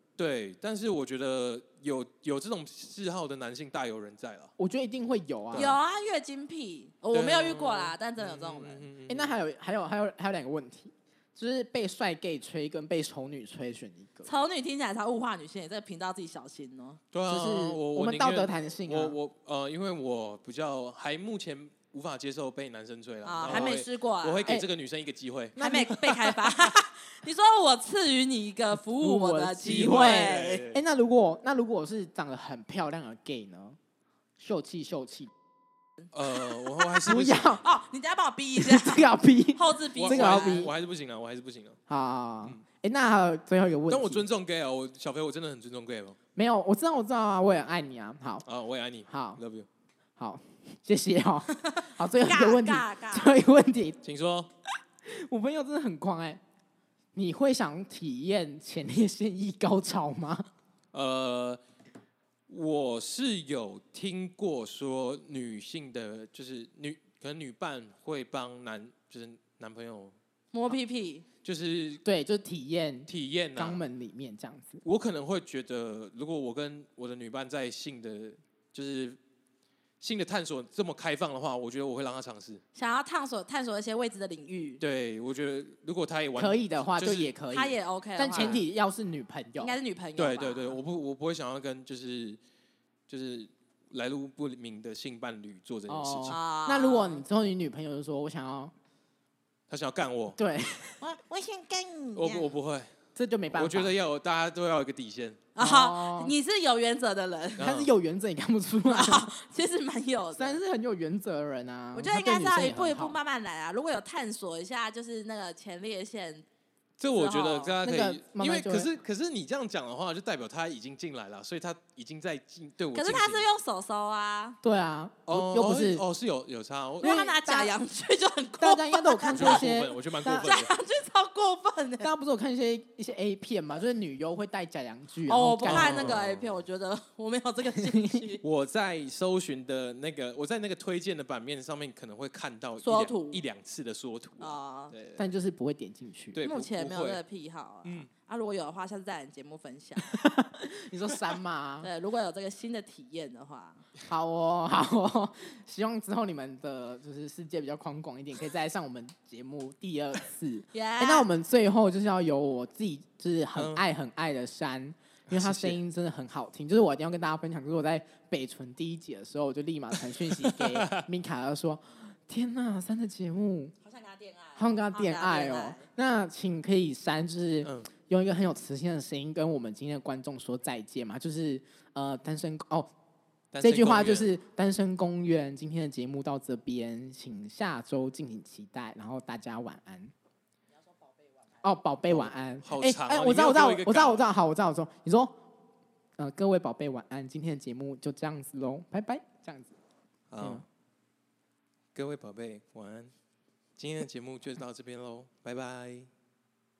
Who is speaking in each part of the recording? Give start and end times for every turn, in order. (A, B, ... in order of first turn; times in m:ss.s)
0:00.2-0:04.5 A
0:04.6-0:05.8 B
0:05.5-0:05.8 A
0:05.5-0:08.9 C
0:07.1-0:09.4 A
0:09.1-0:14.3 B
0:14.2-0:17.0 C
0:17.1-0:25.6 A
0:17.3-0:19.2 B
0:23.2-0:24.6 C
0:23.4-0:23.7 B
0:25.6-0:26.5 B
0:25.6-0:30.6 C
0:28.7-0:33.8 B
0:29.6-0:30.8 A
0:34.4-0:35.3 B
0:36.1-0:37.6 A
0:36.4-0:40.7 C
0:37.0-0:37.6 B
0:38.6-0:40.7 B
0:40.0-0:41.8 A
0:41.9-0:44.2 B
0:43.9-0:46.2 A
0:46.3-0:48.4 B
0:48.4-0:49.7 A
0:49.1-0:49.4 B
0:50.2-0:54.0 B
0:51.6-0:53.4 C
0:54.0-0:54.5 A
0:55.0-0:56.4 B
0:57.1-1:00.5 B
1:00.9-1:01.6 A
1:02.5-1:10.1 A
1:10.5-1:11.2 C
1:11.4-1:12.0 A
1:12.0-1:14.8 B
1:13.1-1:13.8 A
1:14.8-1:19.2 A
1:20.0-1:22.6 A
1:22.7-1:24.8 C
1:24.8-1:27.3 A
1:26.4-1:29.8 B
1:27.5-1:28.6 C
1:29.6-1:30.8 C
1:30.2-1:32.4 A
1:33.1-1:36.4 A
1:35.9-1:38.7 B
1:36.3-1:37.2 C
1:39.7-1:40.4 A
1:40.4-1:41.0 B
1:41.0-1:42.5 C
1:42.2-1:42.9 A
1:43.1-1:43.9 B
1:43.5-1:45.4 A
1:45.5-1:47.7 C
1:45.6-1:46.3 B
1:47.6-1:47.9 A
1:47.6-1:49.3 B
1:48.8-1:50.6 C
1:50.4-1:53.2 B
1:51.9-1:56.4 C
1:57.0-2:03.4 A
1:57.1-1:57.8 C
1:57.8-1:58.9 B
2:02.9-2:04.6 C
2:04.6-2:06.0 B
2:05.3-2:07.2 A
2:07.0-2:07.7 B
2:07.0-2:09.7 C
2:08.6-2:10.6 B
2:09.3-2:10.7 A
2:10.3-2:12.1 C
2:12.0-2:16.2 B
2:15.3-2:18.4 C
2:15.6-2:16.6 A
2:17.8-2:18.2 B
2:18.4-2:25.2 A
2:22.8-2:23.4 C
2:24.4-2:24.9 C
2:25.2-2:26.4 B
2:26.3-2:27.2 A
2:26.4-2:30.2 C
2:27.8-2:28.1 A
2:30.1-2:31.9 B
2:31.8-2:33.8 C
2:34.0-2:53.7 B
2:40.7-2:41.3 C
2:43.6-2:43.8 A
2:45.3-2:45.8 A
2:50.2-2:51.0 A
2:53.8-2:55.9 C
2:54.6-3:02.9 B
2:57.6-2:57.9 A
3:03.5-3:04.3 A
3:03.6-3:10.1 B
3:10.7-3:11.6 C
3:11.6-3:15.4 B
3:12.1-3:14.3 A
3:16.2-3:19.7 B
3:20.3-3:20.6 A
3:21.9-3:23.1 A
3:23.8-3:26.1 A